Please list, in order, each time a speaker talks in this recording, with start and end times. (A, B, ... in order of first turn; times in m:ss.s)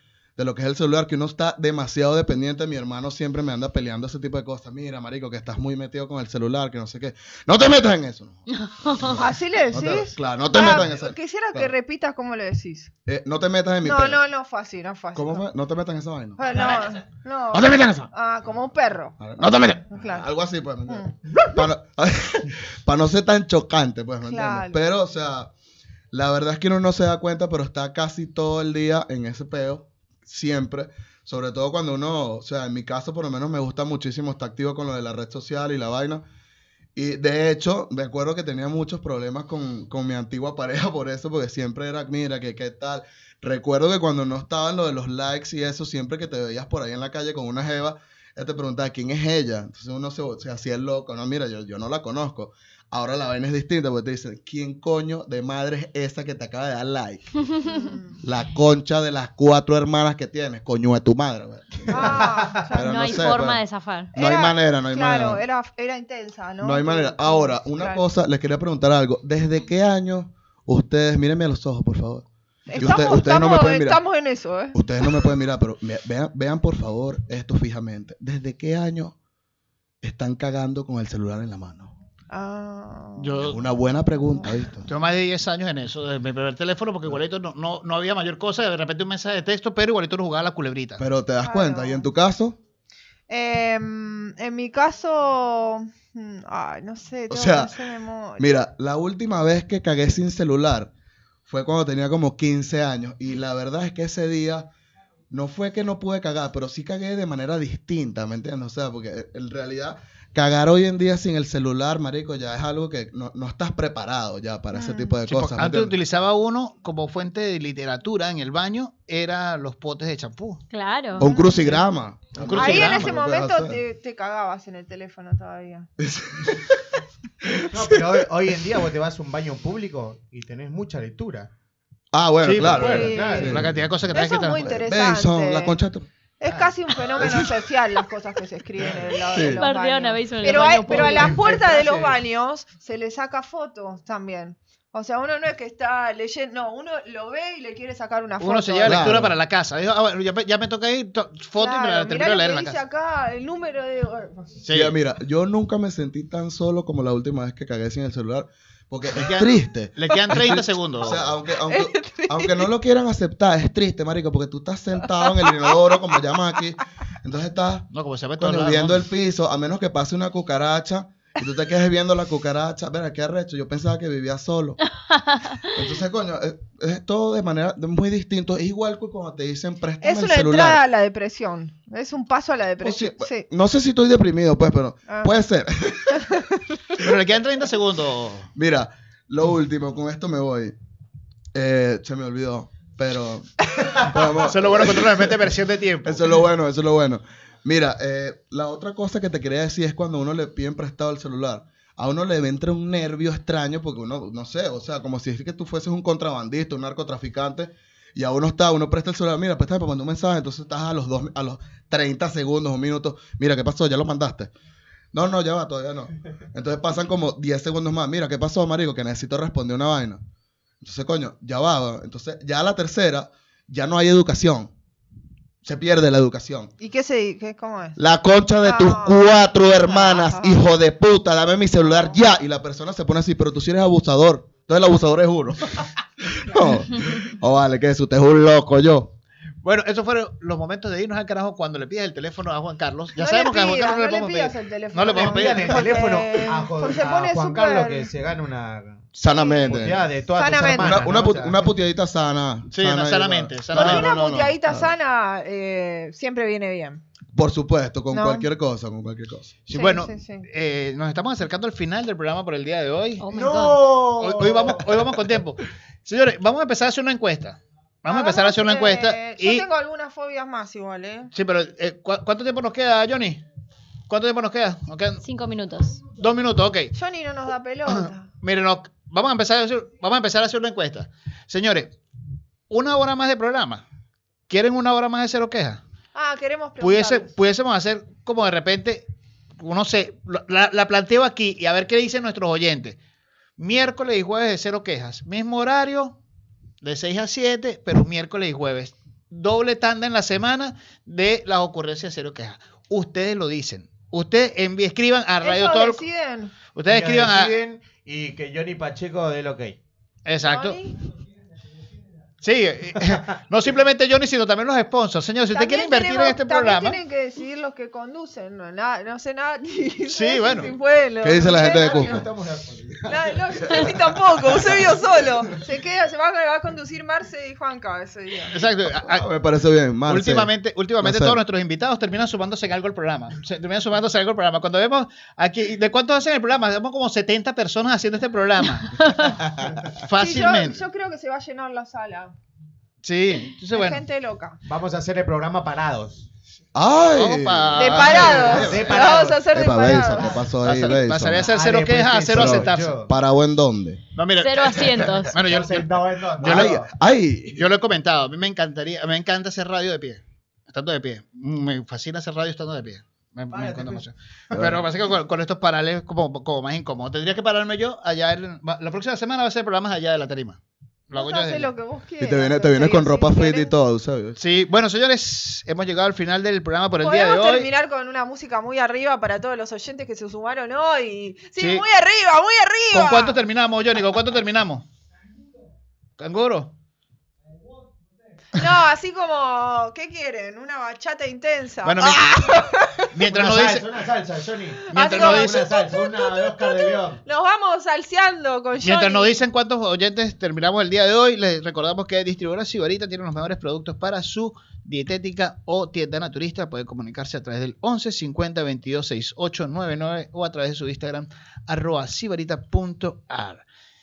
0:00.4-0:11.7 A
0:08.6-0:09.2 B
0:09.2-0:12.9 C
0:13.1-0:14.2 A
0:13.8-0:15.4 C
0:15.1-0:16.6 A
0:16.4-0:19.2 C
0:17.5-0:18.1 A
0:19.2-0:25.5 A
0:19.9-0:20.3 C
0:20.9-0:21.6 C
0:24.2-0:24.8 C
0:26.1-0:36.2 A
0:37.0-0:57.4 A
0:57.6-0:58.2 C
0:58.2-1:02.1 A
1:01.9-1:02.6 D
1:01.9-1:02.9 C
1:02.7-1:03.6 A
1:02.7-1:04.1 B
1:04.1-1:08.0 C
1:04.1-1:05.4 A
1:06.6-1:14.0 A
1:12.7-1:15.1 C
1:14.7-1:19.1 A
1:20.0-1:21.9 A
1:22.3-1:23.5 C
1:23.2-1:23.6 E
1:23.4-1:24.8 A
1:24.8-1:31.0 E
1:31.0-1:32.6 A
1:31.4-1:32.1 C
1:33.3-1:38.5 C
1:37.3-1:37.7 A
1:38.4-1:40.9 A
1:41.5-1:44.7 A
1:45.3-1:56.0 A
1:54.7-1:55.2 C
1:55.2-2:00.6 E
2:00.7-2:01.3 B
2:01.2-2:03.8 A
2:01.2-2:01.7 C
2:02.3-2:03.1 E
2:02.5-2:05.9 C
2:06.0-2:06.7 A
2:07.4-2:08.0 A
2:07.7-2:11.5 D
2:12.1-2:13.8 A
2:12.4-2:13.6 D
2:12.7-2:15.8 C
2:13.4-2:14.7 E
2:14.6-2:16.1 A
2:16.4-2:29.1 C
2:16.4-2:16.7 E
2:17.2-2:17.6 A
2:19.3-2:19.7 A
2:19.5-2:21.4 B
2:20.8-2:22.1 E
2:20.9-2:22.1 D
2:28.4-2:32.8 E
2:28.8-2:29.4 A
2:31.6-2:34.6 C
2:34.6-2:35.0 E
2:34.7-2:54.8 A
2:39.1-2:41.4 E
2:41.7-2:42.6 C
2:47.9-2:49.1 E
2:55.2-2:55.6 B
2:55.7-3:00.8 A
3:00.0-3:03.5 C
3:02.8-3:06.2 A
3:05.1-3:05.3 C
3:07.0-3:08.5 E
3:08.5-3:10.7 A
3:11.5-3:15.4 A
3:14.2-3:16.4 E
3:16.0-3:34.5 A
3:35.1-3:40.2 A
3:40.8-3:44.7 A
3:45.6-3:46.7 A
3:46.8-3:48.0 C
3:48.0-3:59.1 A
3:48.6-3:49.2 C
3:49.9-3:50.6 C
3:51.8-3:52.1 C
3:59.6-4:05.8 E
4:03.1-4:08.1 C
4:05.0-4:09.1 D
4:09.2-4:10.0 A
4:09.2-4:11.2 C
4:09.7-4:11.6 D
4:10.8-4:14.9 A
4:12.7-4:14.5 E
4:13.7-4:17.0 C
4:17.3-4:19.6 A
4:18.1-4:18.5 C
4:19.6-4:23.2 E
4:19.7-4:20.4 C
4:23.2-4:23.9 B
4:23.3-4:25.4 D
4:24.1-4:29.7 E
4:28.1-4:31.3 C
4:31.3-4:33.4 E
4:34.1-4:35.2 E
4:35.2-4:36.0 B
4:36.1-4:36.9 E
4:36.9-4:38.3 C
4:38.4-4:41.9 E
4:42.7-4:43.8 E
4:44.5-4:45.8 E
4:46.1-4:47.3 C
4:46.8-4:49.1 E
4:49.6-4:53.0 E
4:53.6-4:56.2 E
4:56.8-5:06.0 E
5:05.4-5:06.6 C
5:06.7-5:07.5 E
5:06.9-5:09.8 D
5:10.2-5:10.8 E
5:10.4-5:10.9 C
5:12.4-5:17.0 E
5:15.5-5:22.3 C
5:20.0-5:20.7 E
5:21.2-5:22.3 A
5:21.5-5:23.9 D
5:23.1-5:28.5 C
5:28.5-5:29.3 E
5:28.8-5:31.4 A
5:30.1-5:39.4 E
5:39.6-5:39.9 D
5:40.0-5:40.8 E
5:40.2-5:42.3 C
5:43.0-5:44.0 E
5:43.7-5:44.6 C
5:44.6-5:46.3 D
5:46.7-5:51.5 A
5:47.1-5:49.0 E
5:47.7-5:50.4 C
5:48.2-5:50.5 D
5:50.6-5:53.0 E
5:51.3-5:53.1 D
5:52.3-5:54.0 A
5:54.1-5:56.8 E
5:54.4-5:55.3 B
5:55.3-5:56.9 D
5:56.4-5:57.6 A
5:57.5-6:11.7 E
6:03.5-6:04.0 D
6:04.5-6:04.8 A
6:11.1-6:13.7 C
6:12.2-6:14.4 A
6:14.4-6:17.7 E
6:17.0-6:23.4 C
6:21.6-6:21.8 E
6:22.9-6:24.9 E
6:26.2-6:26.7 E
6:28.5-6:33.0 C
6:31.8-6:32.6 E
6:33.1-6:33.9 E
6:33.2-6:37.2 D
6:34.9-6:39.4 C
6:34.9-6:35.7 E
6:38.8-6:53.6 E